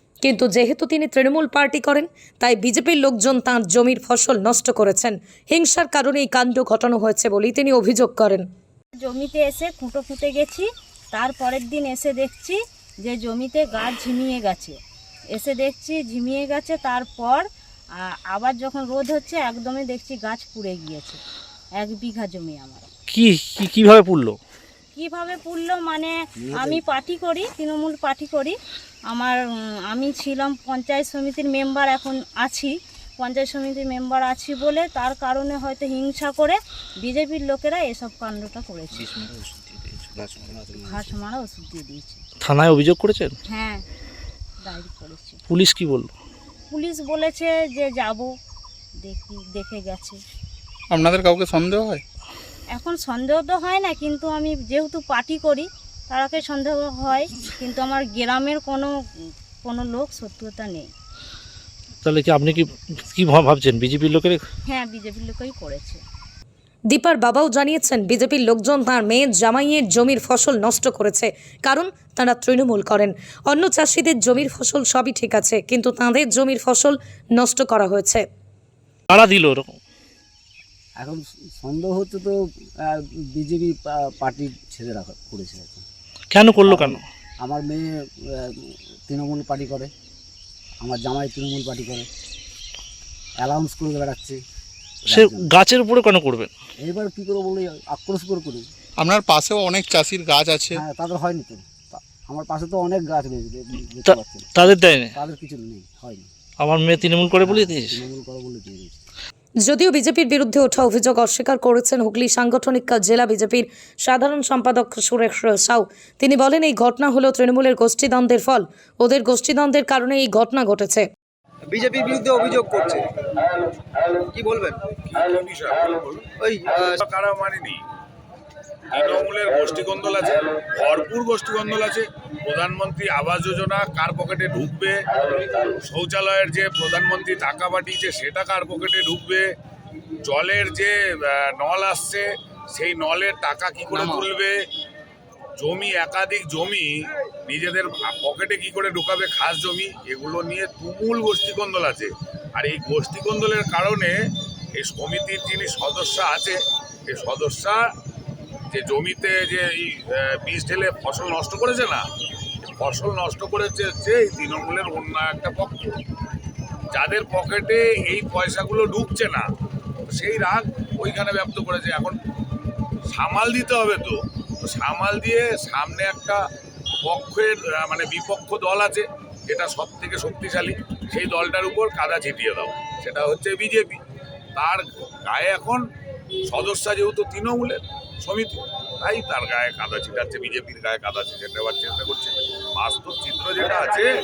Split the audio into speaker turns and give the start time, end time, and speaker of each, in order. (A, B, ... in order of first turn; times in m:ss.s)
0:00.2-0:08.5 A
0:09.0-0:14.8 B
0:15.3-0:17.4 B
0:18.3-0:21.2 B
0:21.8-0:22.9 B
0:23.1-0:24.4 C
0:25.0-0:28.6 B
0:26.4-0:26.8 D
0:29.1-0:29.4 B
0:29.9-0:39.1 B
0:39.1-0:41.0 D
0:40.7-0:42.2 B
0:42.4-0:43.3 C
0:43.5-0:43.8 B
0:44.6-0:45.4 B
0:45.5-0:46.1 C
0:46.7-0:48.3 B
0:49.0-0:50.2 B
0:50.9-0:52.0 E
0:52.8-0:58.9 B
0:59.6-1:00.8 B
1:02.0-1:04.4 C
1:04.7-1:06.0 B
1:06.9-1:18.2 A
1:19.1-1:19.8 C
1:21.0-1:25.8 D
1:26.3-1:27.0 C
1:26.6-1:29.9 D
1:30.8-1:32.1 D
1:33.4-1:34.4 D
1:35.1-1:35.5 D
1:35.1-1:36.5 C
1:36.8-1:38.7 D
1:39.0-1:40.8 E
1:40.7-1:46.3 D
1:44.1-1:45.1 C
1:46.6-1:48.0 C
1:47.4-1:49.0 D
1:49.6-2:01.1 A
2:01.7-2:03.1 F
2:04.3-2:04.9 F
2:05.1-2:06.3 G
2:06.4-2:07.0 F
2:06.8-2:07.8 G
2:08.9-2:19.5 G
2:20.2-2:24.6 G
2:25.6-2:34.2 G
2:34.7-2:37.8 G
2:38.7-2:42.1 G
2:42.8-2:46.0 G
2:46.9-2:49.5 G
2:50.1-2:52.2 G
2:53.1-2:56.4 G
2:57.0-3:04.0 G
3:04.6-3:05.8 G
3:06.4-3:14.1 G